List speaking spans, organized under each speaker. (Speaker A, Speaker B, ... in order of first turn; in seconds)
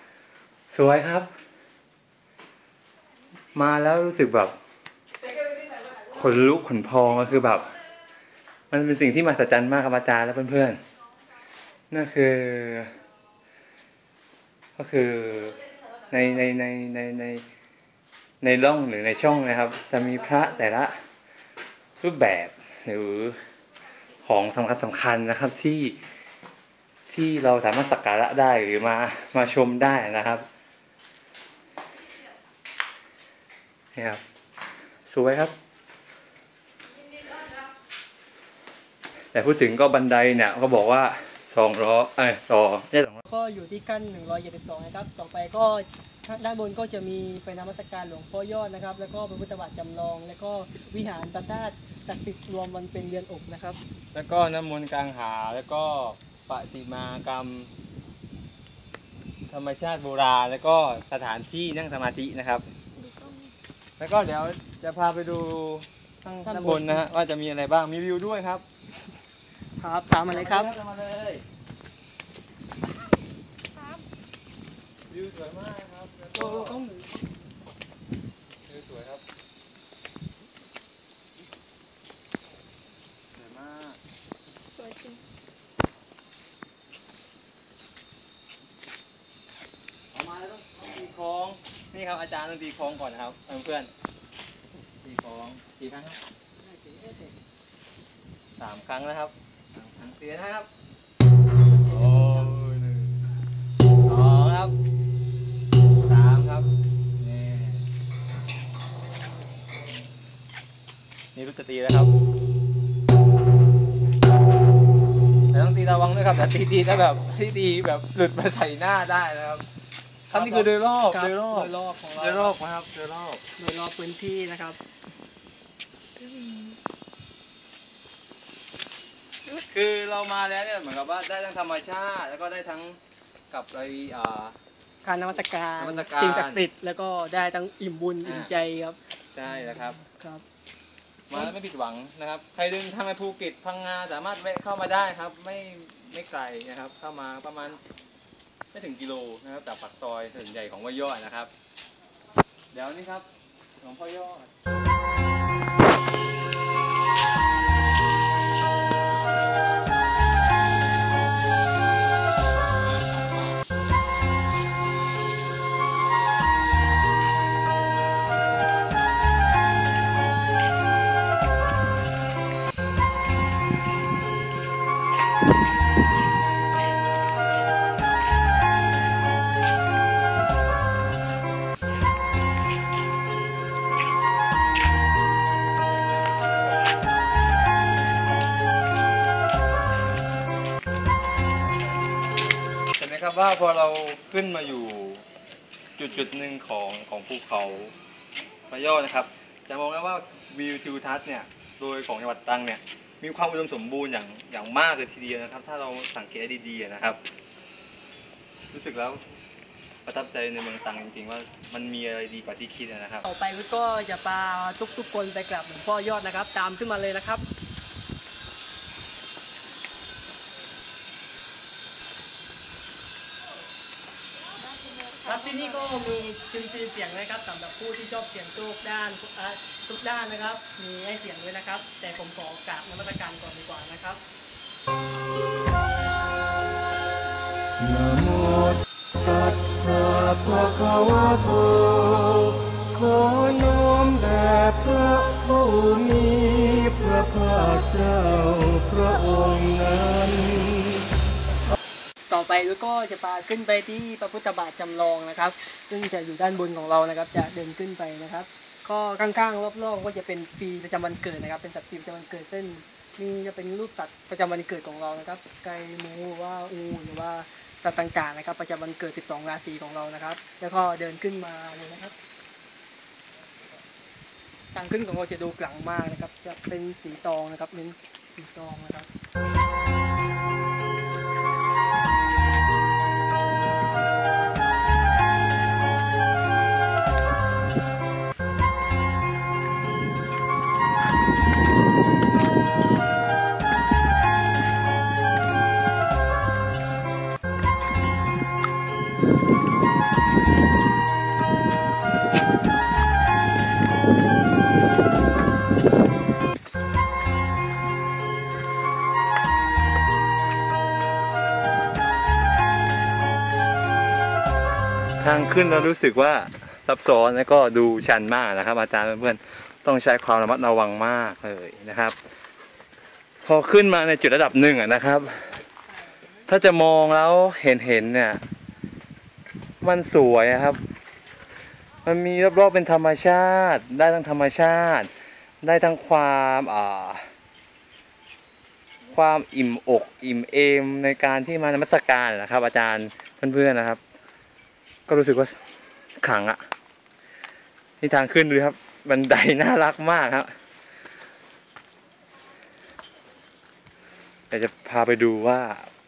Speaker A: 0.7-1.3, 3.5-4.5, 6.1-7.7, 8.7-10.8, 11.9-12.9, 14.8-15.6, 16.1-17.4, 18.4-20.9, 22.0-23.4, 24.2-26.0, 27.1-30.4, 33.9-34.2, 35.1-35.5, 39.3-43.2, 54.1-57.7, 59.5-62.6, 64.0-68.6, 70.3-71.4, 75.1-76.8, 78.7-79.2, 83.3-84.0, 90.1-93.9, 95.0-96.2, 98.6-100.7, 101.8-103.2, 104.1-104.7, 106.0-107.8, 111.3-112.1, 115.5-119.6, 120.3-123.4, 129.5-133.0, 133.5-134.6, 135.8-136.6, 138.2-138.5, 139.3-140.0, 141.3-147.8, 148.7-151.5, 152.7-153.2, 153.8-154.5, 193.0-195.2, 196.0-197.9, 198.7-207.2, 208.7-209.2, 210.1-213.2, 315.2-322.1, 323.4-325.5, 326.4-328.4, 329.8-330.8, 332.0-335.1, 335.6-337.3, 339.1-344.0, 345.1-345.6, 346.2-346.6, 348.0-350.5, 354.5-355.9
Speaker B: 43.3-53.8, 66.4-67.0, 69.8-70.7, 76.3-77.2, 96.6-97.3, 101.7-102.5, 120.3-122.5, 123.6-124.8, 135.0-139.0, 139.6-140.4, 213.2-217.4, 225.2-234.2, 252.3-272.1, 274.7-279.1
Speaker C: 63.0-63.5, 84.8-85.2, 126.2-126.8, 224.6-226.0
Speaker D: 237.8-251.1